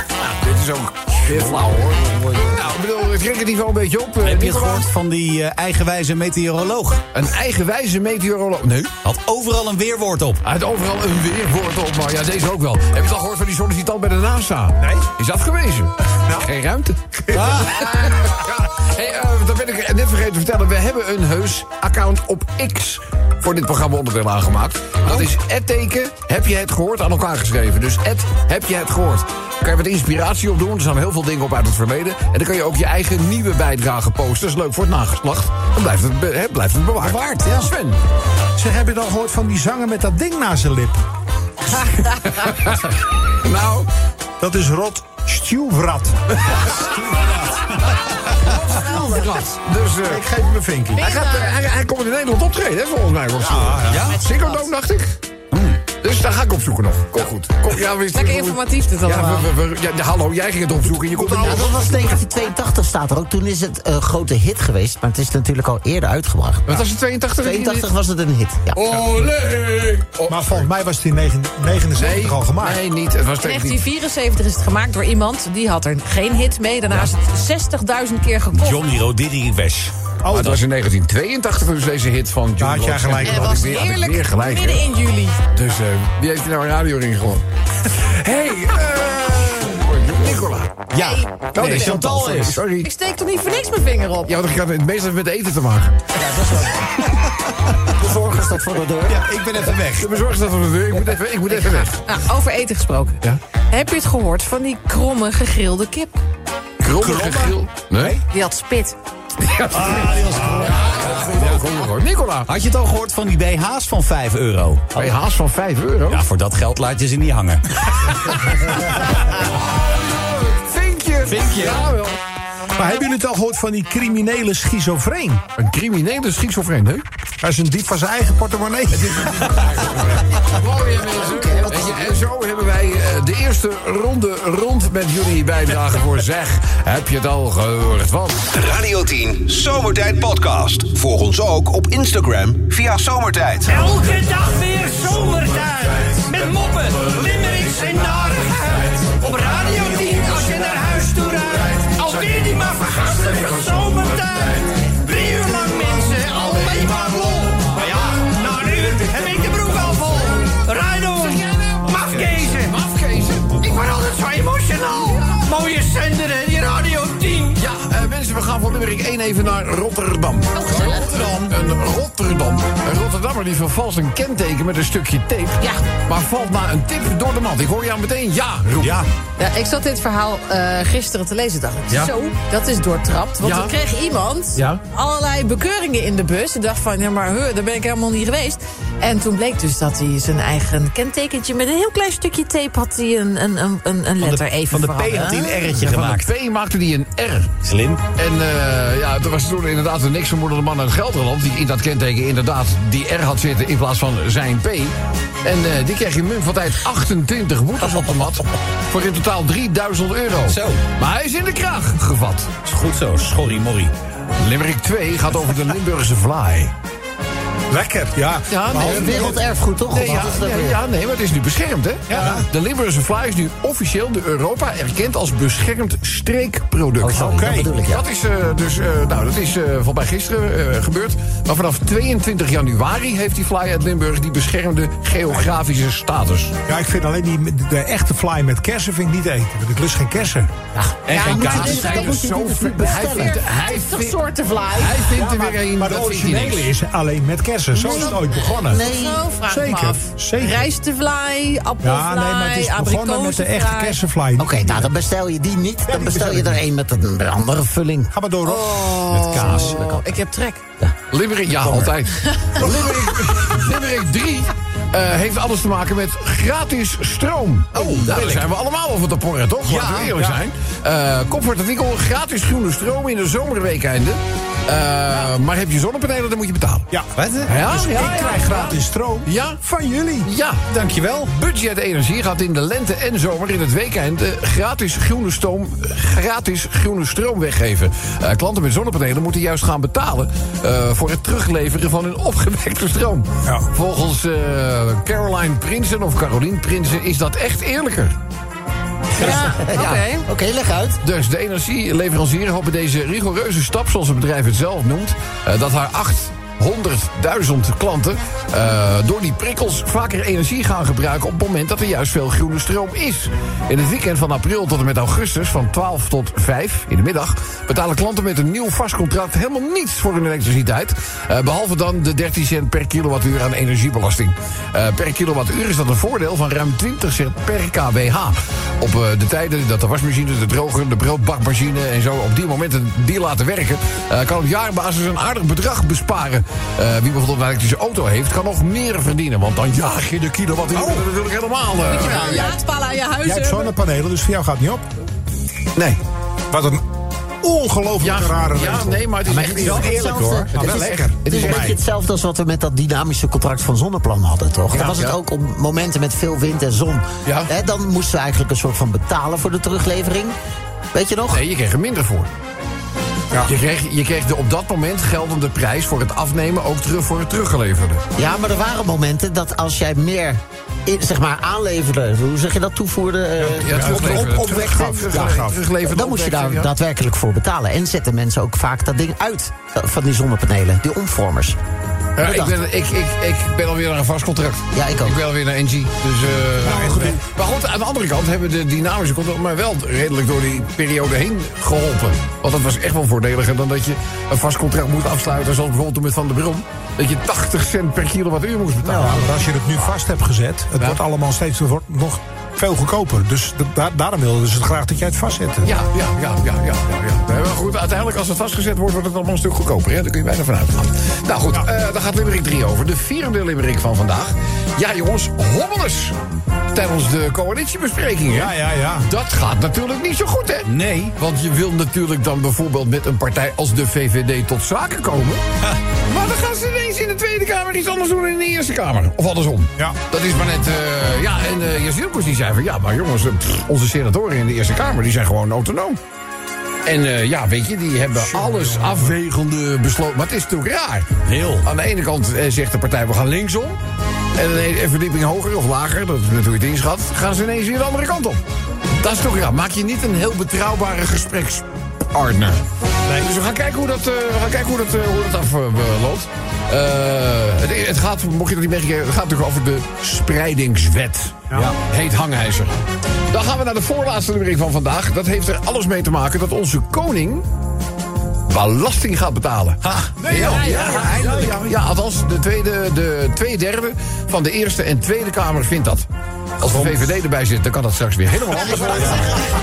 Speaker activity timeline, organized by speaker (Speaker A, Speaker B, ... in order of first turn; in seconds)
Speaker A: 0.2-4.9, 7.1-8.9, 10.4-38.0, 42.2-43.9, 47.8-50.2, 51.0-55.2, 56.0-61.8, 66.7-67.9, 68.7-70.7, 72.0-73.8, 80.3-84.8, 85.5-90.9, 91.5-92.9, 94.2-96.0, 99.9-102.0, 106.8-108.2, 109.4-112.5, 115.0-116.2, 119.4-122.2, 125.6-127.0, 128.9-138.4, 161.1-163.7, 165.0-165.5, 167.5-179.1, 183.4-183.7, 184.6-184.8, 195.8-197.5, 198.2-212.5, 214.4-216.7, 218.5-236.6, 241.1-244.2, 244.8-246.7, 261.1-276.9, 277.5-279.6, 280.2-280.6, 281.3-298.2, 299.2-299.9, 301.0-342.5, 348.0-351.8, 354.7-355.1, 357.2-357.5, 361.3-362.3, 363.4-368.0, 373.6-376.7, 382.2-399.4, 405.6-416.1, 416.7-425.4, 426.1-436.0, 436.9-443.8, 444.4-448.4, 448.9-452.6, 453.2-462.7, 463.3-467.4, 468.5-476.1, 476.6-479.4
Speaker B: 4.2-7.0, 9.0-10.4, 17.3-17.8, 37.0-37.7, 53.9-54.2, 55.5-55.8, 78.5-79.9, 90.9-92.6, 99.1-100.2, 109.7-111.6, 112.5-115.1, 116.1-117.8, 121.2-121.9, 194.2-196.3, 197.6-198.0, 210.4-210.8, 212.6-213.9, 241.1-241.7, 259.1-259.8, 268.0-268.4, 269.7-270.1, 277.1-277.5, 280.7-281.3, 420.6-421.1, 441.2-441.7, 469.9-471.5
Speaker C: 14.8-15.1, 16.2-16.5, 17.3-17.8, 38.6-41.0, 44.4-47.5, 50.0-51.1, 53.4-54.1, 60.9-62.0, 70.2-72.8, 80.2-80.6, 82.6-83.6, 107.0-108.1, 110.3-110.8, 122.7-125.4, 127.4-129.8, 217.7-219.5, 222.1-222.5, 227.1-227.7, 236.7-240.5, 241.3-241.8, 245.1-248.8, 249.5-250.7, 251.8-254.9, 255.9-256.6, 258.1-259.0, 269.8-270.4, 276.9-280.3, 343.2-344.9, 346.5-346.9, 347.4-351.8, 373.4-375.6, 386.6-387.2, 398.9-405.7, 418.3-419.1, 438.1-439.1, 453.1-453.3, 470.2-471.5, 478.8-479.2
Speaker D: 48.8-49.4, 51.0-51.6, 54.1-54.7, 58.1-59.5, 73.4-78.8, 83.2-85.4, 91.0-92.1, 92.8-94.4, 101.5-103.2, 103.7-106.2, 108.3-109.0, 143.9-144.2, 149.7-150.6, 152.1-152.7, 153.4-154.4, 155.2-157.4, 158.6-160.3, 162.0-162.4, 163.7-165.2, 167.0-167.5, 170.5-171.5, 179.4-195.7, 241.1-245.1, 247.7-254.0, 258.4-260.6, 262.2-262.7, 299.2-300.2, 341.9-343.7
Speaker E: 61.4-68.9, 96.2-97.1, 97.9-99.2, 131.2-132.2, 218.8-220.8, 227.0-228.1, 240.8-243.4, 247.8-249.2, 254.4-258.1, 259.4-260.1, 299.2-301.0, 349.6-360.4, 360.9-361.4, 368.1-374.5, 375.1-381.6, 382.2-382.6, 384.7-385.2
Speaker F: 138.5-143.9
Speaker G: 143.7-156.5, 158.2-160.0, 160.6-161.4, 162.1-162.6, 164.4-164.8, 165.5-167.4